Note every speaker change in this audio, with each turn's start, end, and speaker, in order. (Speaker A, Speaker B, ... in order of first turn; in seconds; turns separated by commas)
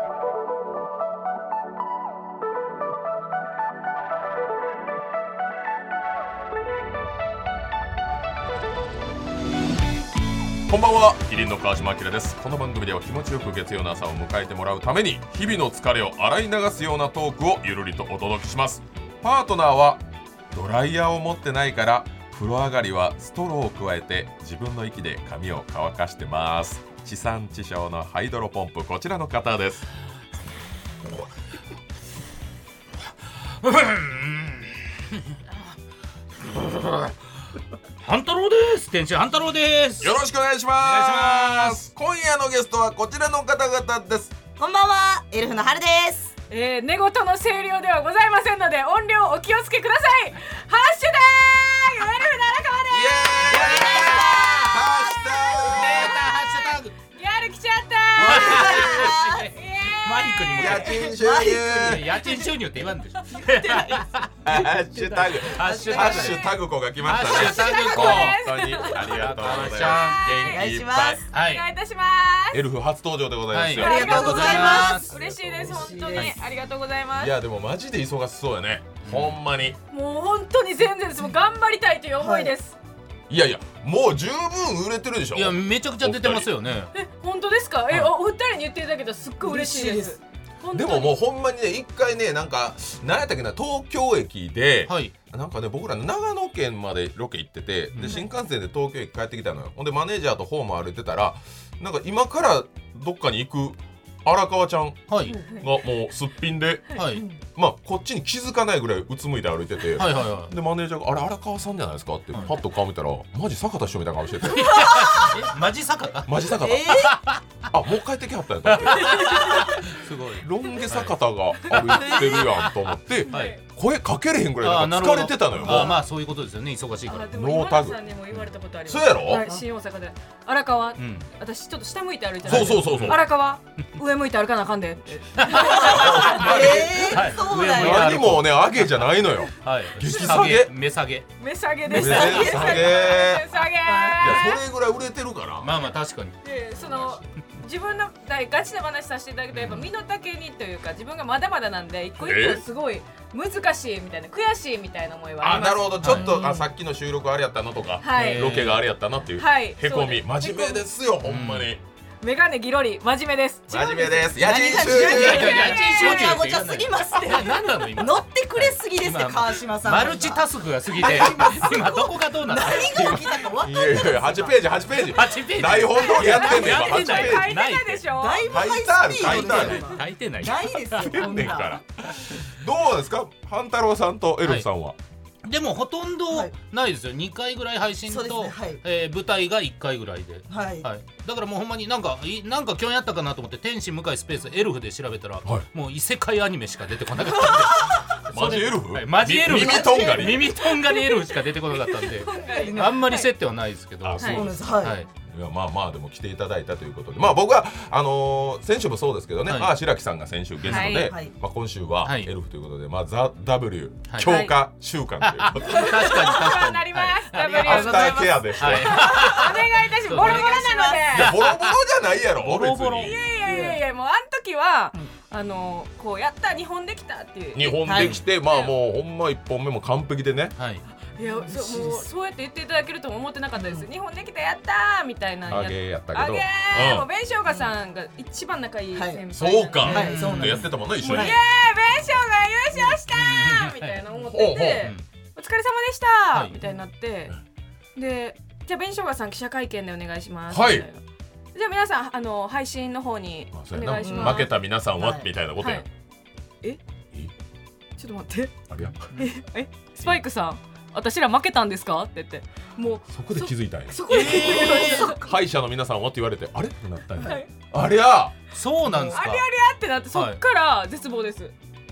Speaker A: 10.7-29.9, Speaker B: 33.4-35.5, Speaker B: 36.4-37.1, Speaker B: 38.0-40.2, Speaker A: 40.0-44.3, Speaker B: 40.8-41.9, Speaker C: 44.6-46.3, Speaker D: 46.5-53.8, Speaker A: 52.9-56.2, Speaker C: 53.5-56.1, Speaker B: 53.5-54.8, Speaker B: 55.6-56.9, Speaker D: 55.8-61.1, Speaker C: 58.2-59.5, Speaker B: 58.2-61.0, Speaker A: 60.6-62.1, Speaker C: 61.0-62.0, Speaker B: 61.8-70.6, Speaker C: 63.3-64.1, Speaker A: 64.4-71.2, Speaker C: 64.9-66.4, Speaker D: 67.3-70.7, Speaker C: 70.5-71.2, Speaker D: 71.3-72.6, Speaker B: 71.3-71.7, Speaker A: 72.5-74.5, Speaker B: 73.5-75.1, Speaker C: 73.8-76.3, Speaker D: 73.8-77.4, Speaker A: 75.2-75.8, Speaker A: 77.2-79.8, Speaker B: 79.0-79.4, Speaker D: 79.9-82.8, Speaker C: 82.2-82.5, Speaker A: 83.3-86.5, Speaker B: 85.3-86.9, Speaker D: 86.9-91.2, Speaker C: 89.4-90.2, Speaker A: 90.7-105.0, Speaker B: 94.9-95.1, Speaker B: 97.9-98.2, Speaker B: 105.1-105.4, Speaker A: 105.5-107.0, Speaker B: 107.0-107.2, Speaker A: 107.6-114.9, Speaker B: 110.0-110.5, Speaker B: 114.5-117.4, Speaker C: 114.7-115.3, Speaker A: 116.3-117.1, Speaker C: 116.6-117.1, Speaker A: 117.7-119.8, Speaker B: 118.7-121.2, Speaker D: 119.1-119.5, Speaker A: 120.3-126.0, Speaker B: 121.7-122.7, Speaker D: 122.0-122.4, Speaker D: 123.3-123.6, Speaker B: 123.3-123.6, Speaker B: 124.6-127.3, Speaker C: 125.6-126.0, Speaker D: 127.1-136.3, Speaker A: 127.3-128.0, Speaker A: 128.9-129.4, Speaker B: 131.0-131.3, Speaker B: 132.4-133.2, Speaker A: 132.5-133.2, Speaker B: 135.4-139.1, Speaker C: 135.5-138.2, Speaker A: 135.9-140.7, Speaker B: 139.6-141.3, Speaker D: 141.4-144.6, Speaker C: 141.9-142.9, Speaker A: 141.9-143.5, Speaker B: 142.0-142.9, Speaker C: 143.9-144.4, Speaker A: 144.2-145.7, Speaker B: 145.6-146.4, Speaker D: 146.4-156.7, Speaker A: 146.8-147.2, Speaker B: 149.5-149.9, Speaker A: 152.2-152.6, Speaker A: 155.4-161.8, Speaker B: 156.0-156.3, Speaker D: 158.0-158.5, Speaker B: 158.1-158.8, Speaker D: 159.4-160.8, Speaker B: 161.2-161.7, Speaker D: 162.2-166.4, Speaker A: 163.7-165.8, Speaker C: 164.3-174.6, Speaker B: 164.9-173.4, Speaker A: 172.7-177.6, Speaker B: 175.1-178.1, Speaker D: 175.9-178.5, Speaker C: 178.1-181.8, Speaker A: 178.5-179.9, Speaker B: 179.2-181.6, Speaker A: 181.0-185.0, Speaker B: 185.4-205.1, Speaker C: 188.1-188.8, Speaker C: 190.5-190.9, Speaker C: 197.4-198.1, Speaker A: 198.3-200.6, Speaker C: 199.5-200.7, Speaker D: 201.9-203.3, Speaker C: 202.3-203.1, Speaker A: 204.0-204.4, Speaker D: 204.2-204.5, Speaker C: 204.2-205.0, Speaker A: 205.3-216.0, Speaker B: 209.5-209.8, Speaker B: 210.6-211.1, Speaker D: 210.7-211.1, Speaker C: 211.0-211.3, Speaker B: 212.0-212.3, Speaker B: 214.1-214.4, Speaker D: 214.2-214.6, Speaker B: 215.2-220.6, Speaker D: 215.6-221.3, Speaker C: 217.4-218.5, Speaker A: 217.6-219.2, Speaker C: 219.2-219.6, Speaker C: 220.2-221.1, Speaker A: 221.1-223.2, Speaker B: 221.1-221.8, Speaker B: 222.4-223.2, Speaker D: 223.0-227.9, Speaker C: 223.4-223.8, Speaker A: 227.6-230.6, Speaker C: 227.8-228.2, Speaker D: 228.4-228.7, Speaker B: 230.6-230.8, Speaker D: 231.2-240.1, Speaker C: 231.2-232.0, Speaker C: 233.6-233.9, Speaker A: 235.5-237.1, Speaker C: 238.9-239.2, Speaker A: 239.3-241.3, Speaker B: 239.9-240.7, Speaker C: 239.9-241.4, Speaker D: 241.0-247.4, Speaker C: 242.7-243.0, Speaker B: 243.1-244.0, Speaker A: 244.3-244.9, Speaker D: 248.0-251.0, Speaker A: 250.5-250.9, Speaker D: 251.5-254.5, Speaker A: 253.5-255.8, Speaker C: 254.0-255.3, Speaker D: 255.6-255.8, Speaker D: 258.0-258.6, Speaker A: 258.7-259.1, Speaker D: 259.1-265.3, Speaker A: 263.1-268.4, Speaker B: 264.1-265.1, Speaker C: 264.1-265.1, Speaker D: 267.2-267.5, Speaker B: 268.5-269.5, Speaker C: 268.9-269.2, Speaker D: 269.1-271.5, Speaker B: 270.1-270.4